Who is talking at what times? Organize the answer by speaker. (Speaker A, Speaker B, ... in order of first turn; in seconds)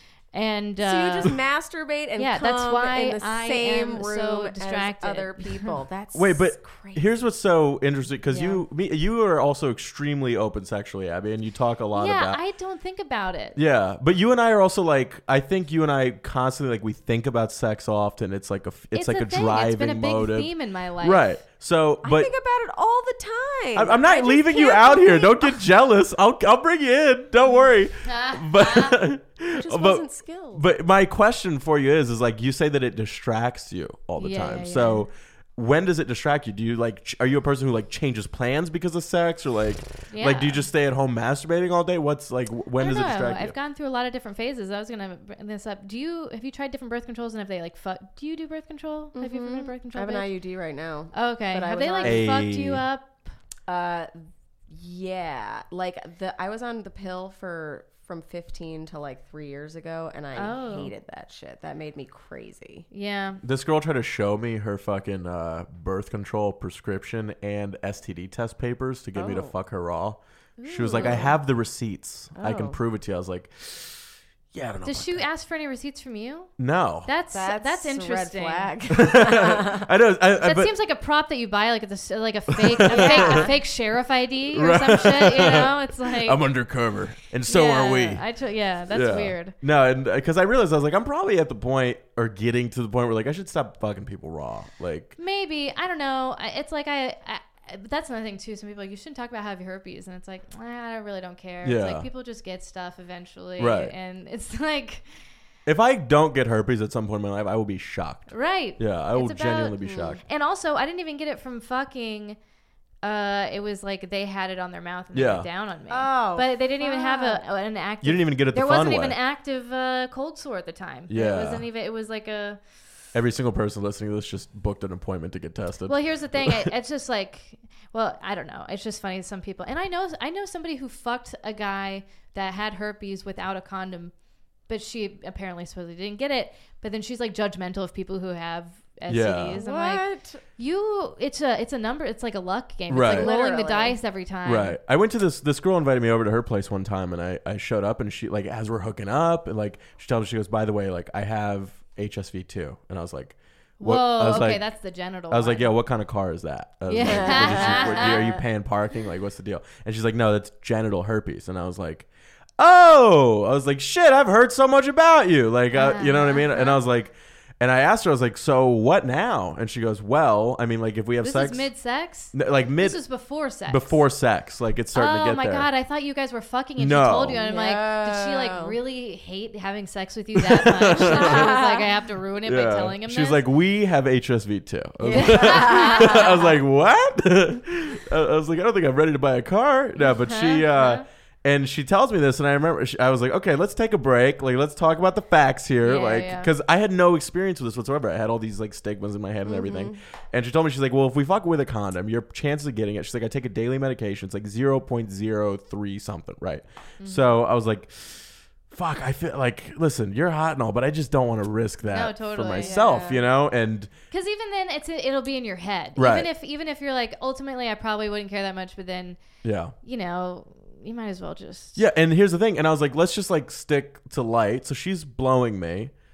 Speaker A: 0.3-1.3, 2.2-5.8, 8.3-8.6, 11.9-13.6, 18.9-21.3, 28.0-28.9, 34.2-35.0, 40.1-40.6, 42.8-50.3, 51.1-53.2, 60.3-60.9, 62.9-63.4, 70.6-71.3, 74.8-76.5, 77.0-78.7, 80.4-86.4, 87.5-89.5, 95.2-105.0, 108.3-112.4, 113.0-122.6, 125.8-134.1, 134.7-140.0, 140.6-144.8, 153.8-155.7, 156.9-158.4, 165.7-166.8, 171.2-174.0, 174.9-183.4, 185.1-186.3, 190.0-191.0, 195.8-196.5, 207.0-207.3, 211.8-212.8, 214.1-219.2, 219.8-221.8
Speaker B: 0.8-7.2, 22.0-25.6, 29.5-30.7, 49.1-52.4, 53.7-62.9, 69.1-69.5, 70.9-71.3, 72.3-72.8, 77.3-79.9, 82.9-83.5, 109.8-110.2, 115.9-117.4, 139.5-140.4, 143.0-144.0, 157.0-158.2, 177.4-178.8, 181.0-181.9, 185.0-186.6, 199.4-200.0, 212.6-213.2
Speaker C: 6.1-12.4, 13.5-22.3, 23.7-30.0, 30.5-43.5, 52.0-52.8, 63.4-75.2, 76.6-77.1, 78.9-80.7, 82.5-83.5, 84.5-88.2, 88.9-95.1, 101.6-102.0, 103.6-103.9, 105.7-110.2, 115.1-115.5, 118.0-119.2, 121.1-121.6, 123.1-126.7, 139.1-139.6, 142.9-143.3, 144.4-154.6, 155.3-162.1, 162.6-171.7, 172.3-173.0, 173.6-175.7, 176.8-177.4, 180.3-181.6, 182.4-213.9, 215.9-216.3, 219.4-219.7, 221.8-225.9